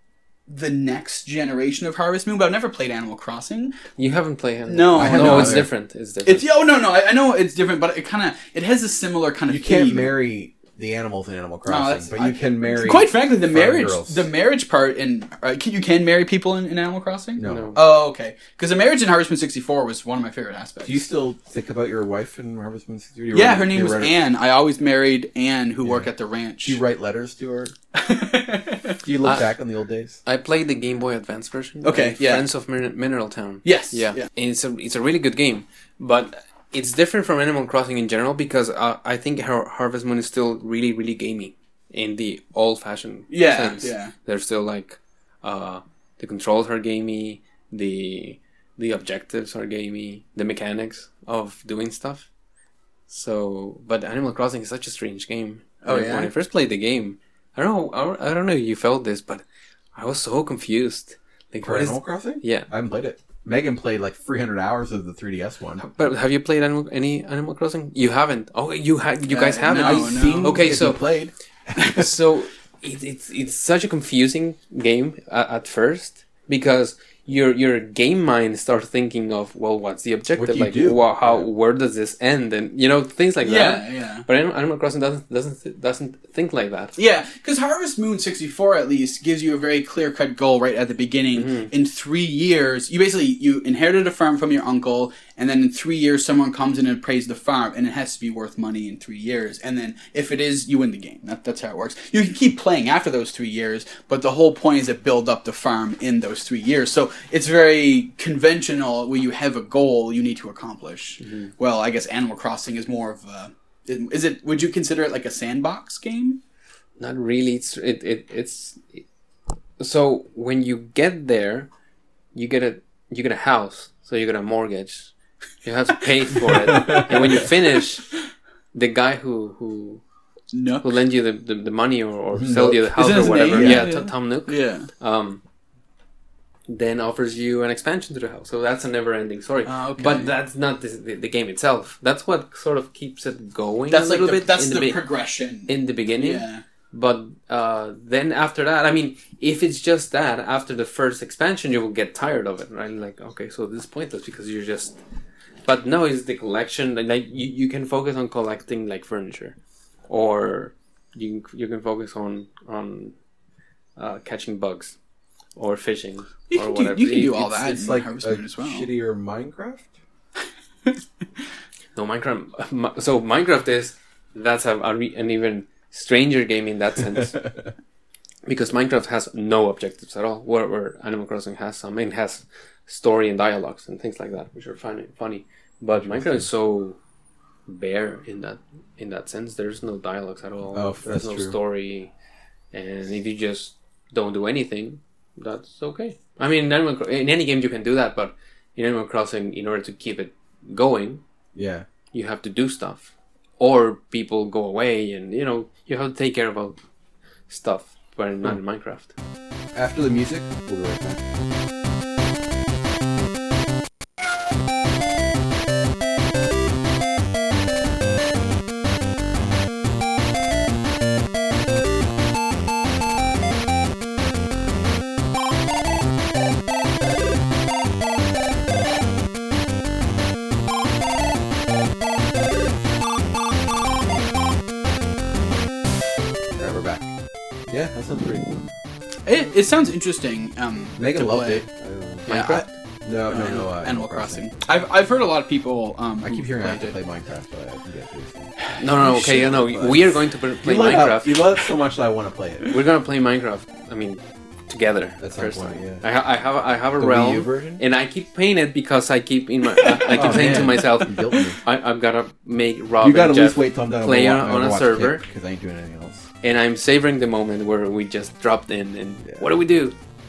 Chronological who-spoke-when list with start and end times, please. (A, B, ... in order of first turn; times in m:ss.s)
0:00.5-0:03.7 A
0:04.0-0:06.5 B
0:04.7-0:05.7 A
0:04.9-0:05.7 C
0:06.2-0:10.1 A
0:09.5-0:14.3 C
0:11.7-0:21.0 A
0:17.4-0:17.8 C
0:17.4-0:17.8 B
0:20.8-0:24.1 C
0:23.3-0:26.8 A
0:25.8-0:26.1 C
0:26.6-0:27.7 C
0:27.9-0:29.0 A
0:29.0-0:30.2 C
0:29.2-0:29.5 B
0:30.2-0:52.3 B
0:31.8-0:32.4 A
0:33.6-0:34.3 A
0:43.3-0:44.1 A
0:53.1-0:59.4 B
0:55.8-0:56.3 A
0:59.9-1:02.7 B
1:01.6-1:05.8 C
1:05.8-1:11.0 B
1:09.3-1:10.6 A
1:09.7-1:12.0 C
1:11.9-1:26.9 B
1:20.3-1:21.4 C
1:23.4-1:24.2 A
1:27.0-1:56.4 A
1:31.3-1:31.7 B
1:51.2-1:51.5 B
1:57.0-1:59.0 B
1:59.8-2:01.7 B
2:02.3-2:05.1 B
2:05.6-2:08.1 B
2:08.7-2:10.0 B
2:10.5-2:10.9 A
2:10.8-2:15.4 B
2:12.3-2:12.8 C
2:12.7-2:14.9 A
2:13.5-2:13.9 C
2:16.7-2:25.0 B
2:19.6-2:20.3 A
2:23.9-2:26.6 A
2:25.7-2:35.0 B
2:35.6-2:39.6 B
2:40.1-2:43.1 B
2:44.0-2:45.0 B
2:45.6-2:47.5 B
2:46.5-2:48.9 A
2:47.5-2:49.9 C
2:51.9-2:57.4 B
2:58.4-3:07.0 B
3:05.9-3:06.4 C
3:07.7-3:12.1 B
3:10.7-3:11.6 C
3:12.7-3:21.2 B
3:21.5-3:21.8 C
3:22.1-3:26.8 B
3:27.5-3:29.1 B
3:29.7-3:31.2 C
3:56.6-3:57.1 C
3:57.7-3:58.7 C
3:59.2-4:01.6 A
4:01.0-4:04.4 C
4:02.3-4:02.6 B
4:02.3-4:02.6 A
4:03.3-4:06.9 A
4:06.2-4:12.7 C
4:08.6-4:09.4 A
4:08.8-4:11.4 B
4:12.7-4:25.2 B
4:15.2-4:16.0 C
4:17.0-4:17.8 C
4:19.8-4:21.0 A
4:20.1-4:21.6 C
4:23.0-4:26.3 C
4:26.4-4:30.0 B